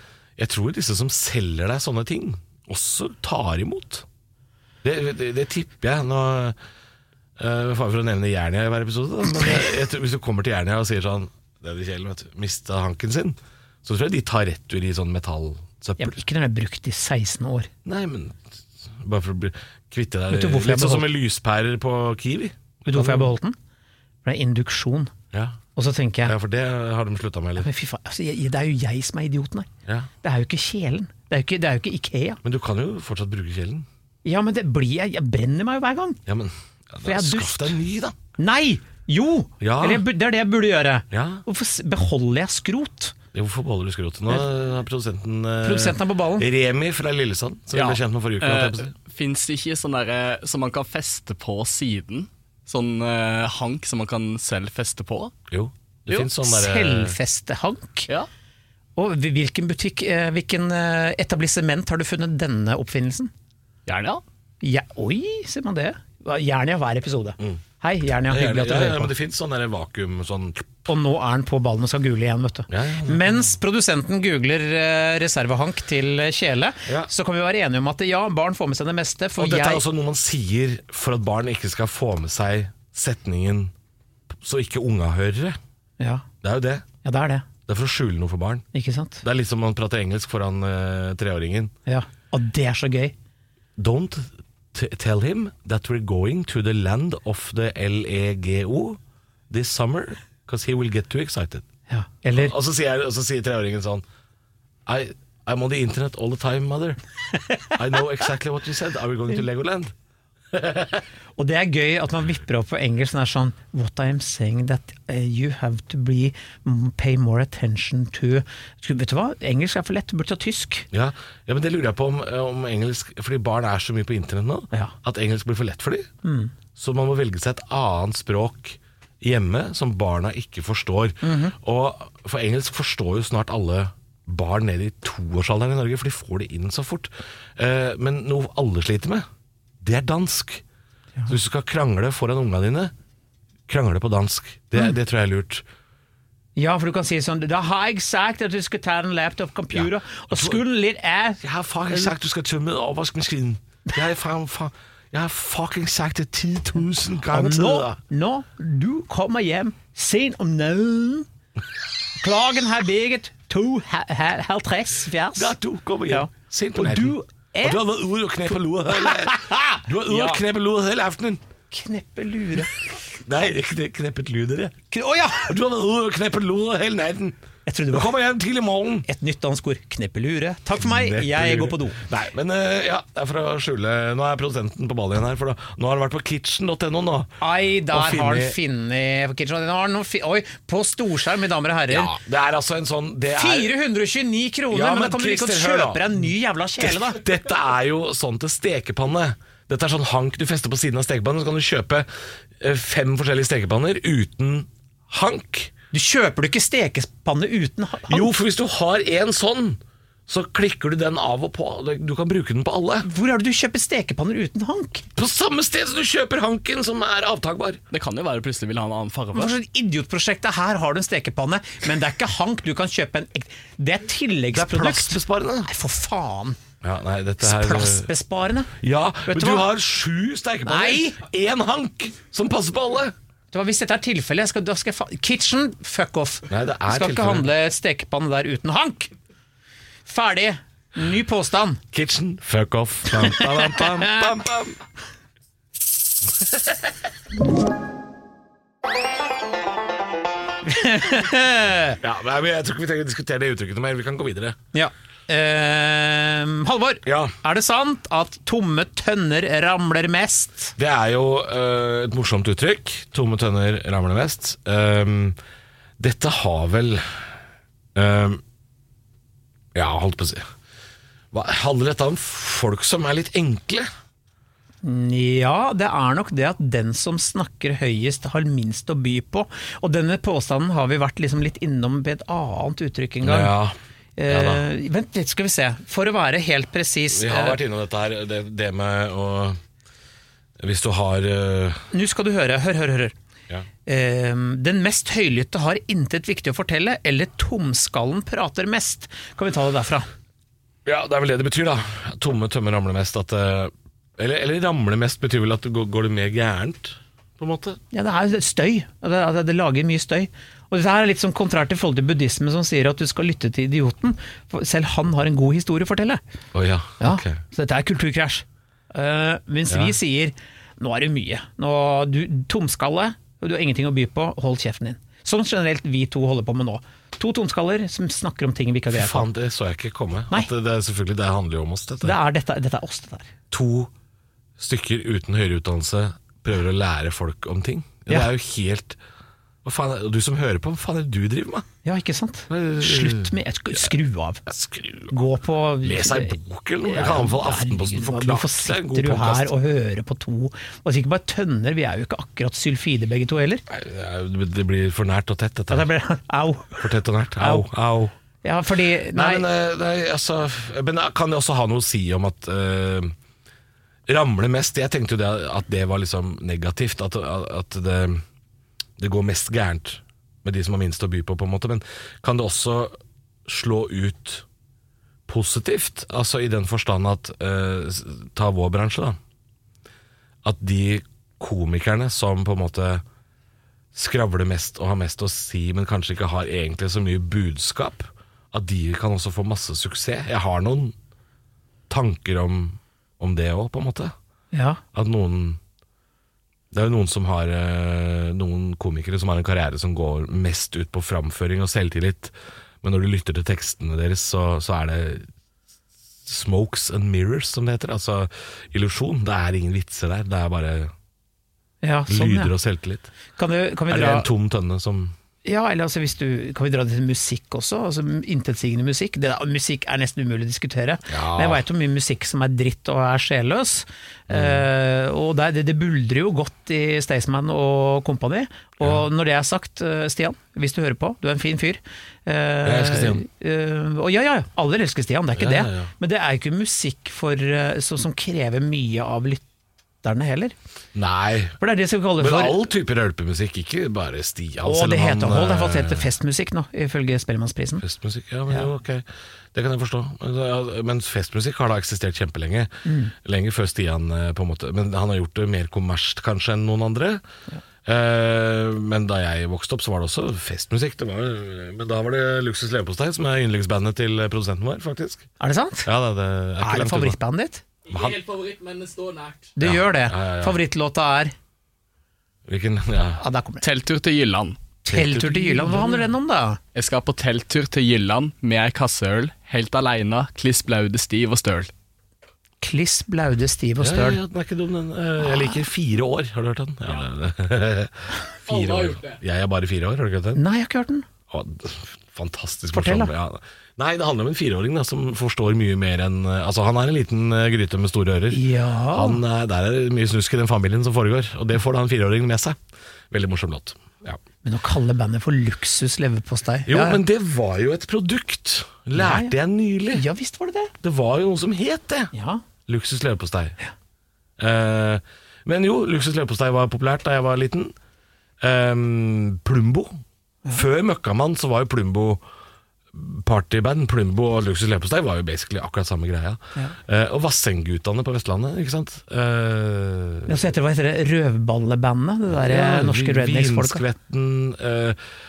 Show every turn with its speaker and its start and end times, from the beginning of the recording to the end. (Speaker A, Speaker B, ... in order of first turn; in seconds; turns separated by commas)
Speaker A: 0.4-4.0, Speaker A: 4.8-6.6, Speaker A: 7.4-16.2, Speaker B: 16.0-17.7, Speaker A: 17.8-23.3, Speaker B: 20.3-21.1, Speaker B: 22.9-23.6, Speaker B: 24.2-25.1, Speaker A: 25.3-25.6, Speaker B: 25.8-26.3, Speaker A: 26.2-27.7, Speaker B: 27.6-29.7, Speaker B: 30.2-32.4, Speaker A: 32.4-33.9, Speaker B: 34.2-36.2, Speaker A: 36.2-38.1, Speaker B: 37.0-37.8, Speaker B: 38.4-43.1, Speaker A: 39.6-40.0, Speaker A: 41.1-41.4, Speaker A: 43.3-48.9, Speaker B: 45.6-46.5, Speaker C: 47.7-55.3, Speaker A: 55.5-57.2, Speaker B: 56.1-58.1, Speaker B: 59.0-63.3, Speaker C: 63.9-64.2, Speaker B: 64.6-69.1, Speaker A: 68.3-70.7, Speaker B: 70.8-79.8, Speaker A: 72.7-73.4, Speaker A: 79.4-83.7, Speaker A: 84.3-85.6, Speaker B: 86.0-86.2, Speaker A: 86.4-86.8, Speaker B: 87.0-87.5, Speaker A: 87.7-88.6, Speaker B: 88.7-89.2, Speaker A: 89.2-91.7, Speaker B: 91.8-93.1, Speaker A: 93.8-101.6, Speaker B: 101.9-102.5, Speaker A: 102.3-104.0, Speaker A: 104.8-107.0, Speaker A: 107.7-109.9, Speaker A: 110.5-111.0, Speaker B: 111.4-120.9, Speaker A: 120.9-126.1, Speaker B: 126.2-126.5, Speaker A: 126.7-139.2, Speaker B: 131.2-131.5, Speaker A: 139.8-140.6, Speaker A: 141.3-142.9, Speaker A: 143.7-145.6, Speaker B: 146.6-152.1, Speaker A: 149.7-150.6, Speaker A: 151.4-158.0, Speaker B: 157.3-161.3, Speaker B: 162.2-165.5, Speaker A: 165.3-171.4, Speaker B: 166.1-167.8, Speaker B: 168.9-170.4, Speaker B: 171.7-172.8, Speaker A: 173.2-174.8, Speaker B: 174.9-175.5, Speaker A: 175.4-177.3, Speaker B: 177.7-178.1, Speaker A: 177.9-179.1, Speaker B: 179.1-182.0, Speaker A: 180.8-187.4, Speaker B: 187.4-192.1, Speaker A: 187.9-188.6, Speaker A: 191.9-193.8, Speaker B: 193.3-197.2, Speaker A: 194.7-196.1, Speaker A: 196.8-202.1, Speaker A: 202.6-205.7, Speaker B: 205.9-208.3, Speaker A: 208.1-213.1, Speaker B: 213.0-215.1, Speaker A: 215.2-217.8, Speaker C: 217.9-219.5, Speaker B: 219.3-226.6, Speaker A: 224.5-225.7, Speaker A: 226.8-228.1, Speaker B: 227.4-228.7, Speaker A: 228.7-233.1, Speaker B: 229.3-229.7, Speaker B: 230.6-231.2, Speaker B: 233.5-239.1, Speaker A: 236.5-237.5, Speaker B: 240.1-241.8, Speaker A: 241.9-244.8, Speaker B: 243.1-244.3, Speaker B: 250.6-252.0, Speaker A: 252.0-254.6, Speaker B: 254.7-260.7, Speaker A: 257.0-257.3, Speaker A: 260.8-265.4, Speaker A: 266.0-267.3, Speaker A: 267.9-268.4, Speaker A: 269.7-270.4, Speaker A: 271.3-273.9, Speaker B: 274.8-283.5, Speaker A: 283.2-283.8, Speaker B: 284.2-287.6, Speaker A: 284.3-284.6, Speaker A: 287.1-289.6, Speaker A: 290.6-291.9, Speaker B: 291.9-293.1, Speaker B: 293.9-300.1, Speaker A: 300.8-307.8, Speaker B: 307.9-316.2, Speaker A: 316.5-317.4, Speaker B: 317.0-329.3, Speaker A: 319.7-319.9, Speaker A: 328.9-332.2, Speaker B: 332.0-333.3, Speaker A: 333.5-333.9, Speaker A: 334.6-339.0, Speaker A: 339.6-341.6, Speaker B: 341.8-344.5, Speaker A: 342.5-343.9, Speaker A: 344.5-345.1, Speaker B: 345.1-353.6, Speaker A: 345.8-349.5, Speaker A: 353.7-355.9, Speaker B: 355.7-357.7, Speaker A: 356.8-358.1, Speaker B: 358.4-359.4, Speaker A: 359.1-363.1, Speaker A: 364.1-368.2, Speaker A: 369.0-374.4, Speaker A: 375.3-379.2, Speaker A: 380.4-383.0, Speaker A: 383.9-390.9, Speaker A: 391.9-394.1, Speaker B: 394.5-394.8, Speaker A: 394.9-395.6, Speaker A: 396.7-405.3, Speaker A: 406.2-410.9, Speaker B: 411.8-412.5, Speaker A: 412.1-413.1, Speaker B: 413.4-414.3, Speaker A: 413.9-415.1, Speaker B: 415.4-439.4, Speaker A: 421.1-421.6, Speaker A: 424.3-424.7, Speaker A: 432.6-433.2, Speaker A: 435.4-435.9, Speaker B: 440.0-440.6, Speaker A: 440.9-441.6, Speaker B: 441.6-442.7, Speaker A: 442.2-446.1, Speaker B: 444.6-447.8, Speaker A: 447.8-457.2, Speaker B: 452.8-453.1, Speaker A: 457.8-465.3, Speaker B: 465.4-465.9, Speaker A: 465.8-467.2, Speaker B: 466.6-467.6, Speaker C: 467.9-469.5, Speaker A: 467.9-468.2, Speaker B: 469.5-471.3, Speaker A: 469.6-470.6, Speaker A: 472.4-473.2, Speaker B: 473.2-473.6, Speaker C: 473.6-474.6, Speaker B: 474.8-476.6, Speaker A: 474.9-476.1, Speaker C: 476.7-481.7, Speaker B: 482.6-484.2, Speaker A: 483.8-490.4, Speaker B: 485.2-485.6, Speaker C: 488.5-489.1, Speaker B: 490.3-491.1, Speaker A: 491.3-502.6, Speaker B: 492.7-493.1, Speaker B: 498.3-499.2, Speaker A: 503.1-504.2, Speaker B: 504.4-507.0, Speaker A: 506.7-510.0, Speaker B: 508.9-509.4, Speaker B: 509.9-510.7, Speaker A: 510.8-512.1, Speaker B: 512.1-512.4, Speaker A: 512.6-513.5, Speaker A: 514.4-517.7, Speaker A: 518.4-520.0, Speaker A: 520.5-522.2, Speaker A: 522.9-530.4, Speaker B: 530.3-533.8, Speaker A: 532.3-535.0